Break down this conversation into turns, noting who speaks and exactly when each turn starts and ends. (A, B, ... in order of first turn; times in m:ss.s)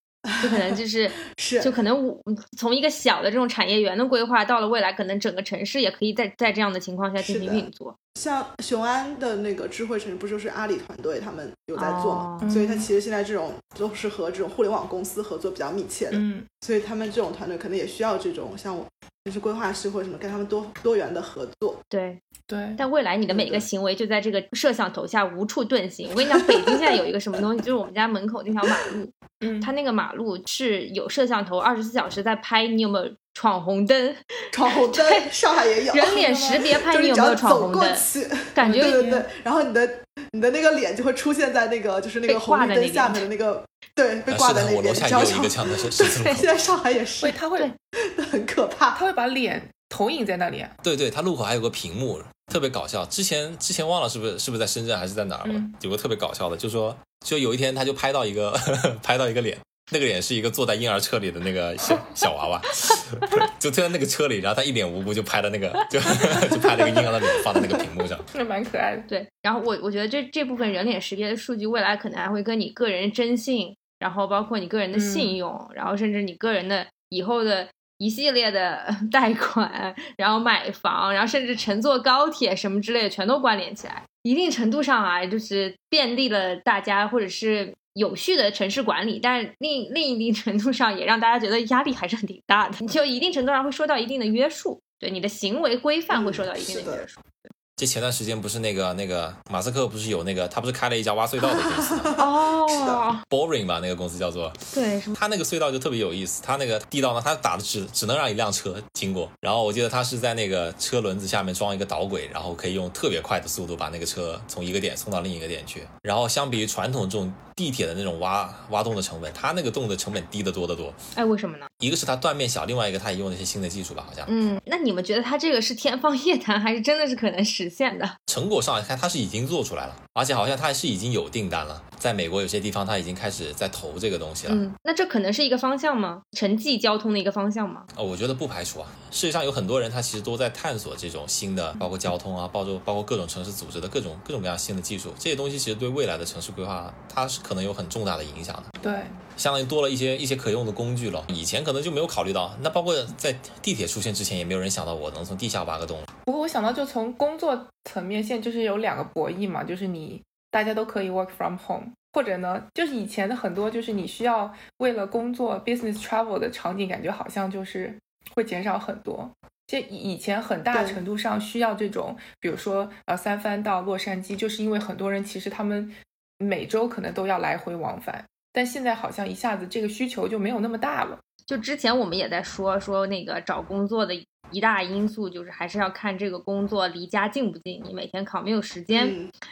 0:00.3-0:00.8 A
0:00.4-0:08.0 B
0:01.3-0:01.8 A
0:07.2-0:21.8 A
0:11.8-0:12.5 B
0:12.4-0:12.9 C
0:16.1-0:16.5 C
0:21.9-0:22.2 B
0:22.5-0:22.8 C
0:22.8-0:34.2 B
0:23.3-0:23.6 A
0:29.4-0:29.7 C
0:34.5-0:47.4 A
0:34.7-0:35.3 B
0:35.9-0:39.2 B
0:35.9-0:36.7 C
0:38.6-0:39.2 C
0:42.3-0:43.3 B
0:44.3-0:46.5 D
0:47.2-0:47.7 C
0:48.0-0:49.0 A
0:49.0-0:50.8 C
0:50.8-1:08.3 D
0:55.4-0:55.7 C
1:08.3-1:09.1 C
1:09.1-1:37.4 B
1:14.9-1:15.4 C
1:36.1-1:37.1 A
1:37.8-1:42.2 D
1:41.4-1:43.0 A
1:42.2-1:43.2 B
1:43.3-2:01.0 D
1:44.7-1:45.2 B
2:01.2-2:01.7 B
2:01.8-2:04.4 D
2:04.3-2:08.2 B
2:08.3-2:14.7 D
2:14.5-2:17.9 B
2:17.9-2:28.7 D
2:28.8-2:29.2 C
2:29.4-2:36.1 D
2:36.3-3:01.2 C
2:50.7-2:51.0 A
3:01.5-3:09.2 B
3:08.9-3:09.3 A